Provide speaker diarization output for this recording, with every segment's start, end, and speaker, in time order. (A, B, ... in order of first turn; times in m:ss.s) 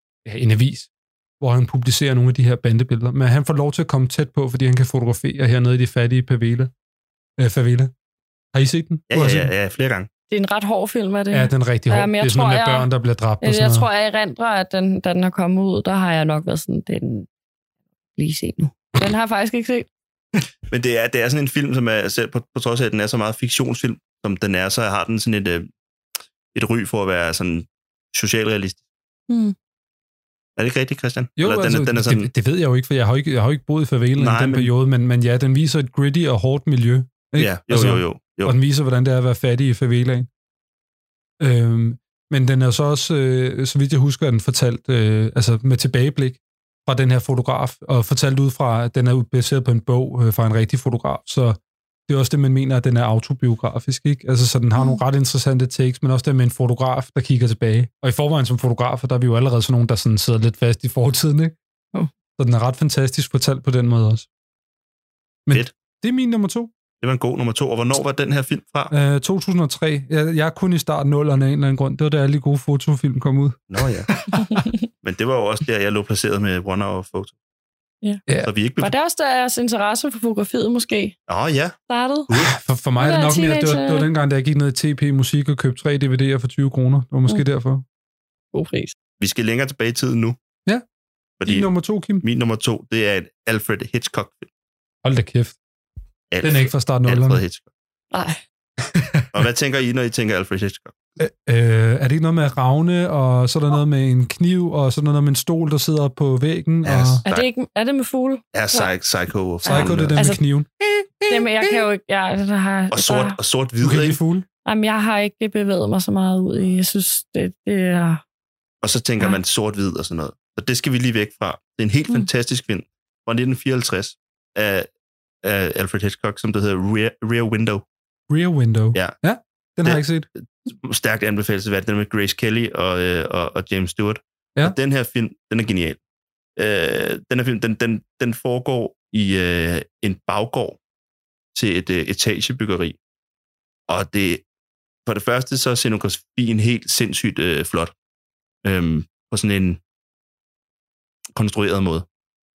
0:00.2-0:06.7 A
0:07.4-0:07.9 A
0:08.5-0:09.5 A
0:09.1-0:10.1 B
0:10.3-0:12.9 C
0:11.3-0:13.8 A
0:13.4-0:17.3 C
0:18.2-0:19.9 C
0:20.7-0:25.7 B
0:26.5-0:28.8 B
0:29.3-0:29.5 C
0:30.6-0:32.3 B
0:31.4-0:40.3 A
0:34.2-0:34.7 B
0:37.4-0:38.5 B
0:41.4-1:01.6 A
1:02.4-1:04.3 A
1:05.5-1:06.7 A
1:07.0-1:08.9 B
1:08.9-1:14.6 A
1:13.7-1:14.1 B
1:14.3-1:14.7 C
1:15.0-1:17.3 B
1:18.4-1:18.9 B
1:18.8-1:21.2 C
1:21.3-1:21.8 B
1:21.9-1:22.3 C
1:22.3-1:27.8 A
1:23.0-1:24.1 C
1:28.5-1:28.9 C
1:29.2-1:30.4 B
1:31.4-1:31.7 B
1:31.4-1:32.2 A
1:32.2-1:34.5 B
1:35.0-1:35.6 A
1:36.3-1:37.7 B
1:36.4-1:37.4 A
1:38.1-1:38.4 C
1:38.9-1:39.3 A
1:39.3-1:40.9 B
1:41.2-1:47.2 A
1:46.8-1:47.5 B
1:47.2-1:48.9 C
1:48.5-1:50.2 B
1:49.6-1:50.4 C
1:49.6-1:50.7 A
1:51.0-1:51.3 B
1:51.3-1:53.4 C
1:52.9-1:54.2 B
1:53.8-1:54.4 A
1:54.6-1:58.2 C
1:58.8-2:04.9 B
2:05.4-2:07.8 B
2:08.3-2:10.3 A
2:09.8-2:16.0 B
2:16.6-2:20.8 B
2:21.5-2:23.0 B
2:23.9-2:24.4 B
2:25.0-2:27.9 B
2:28.6-2:29.8 B
2:31.3-2:32.1 B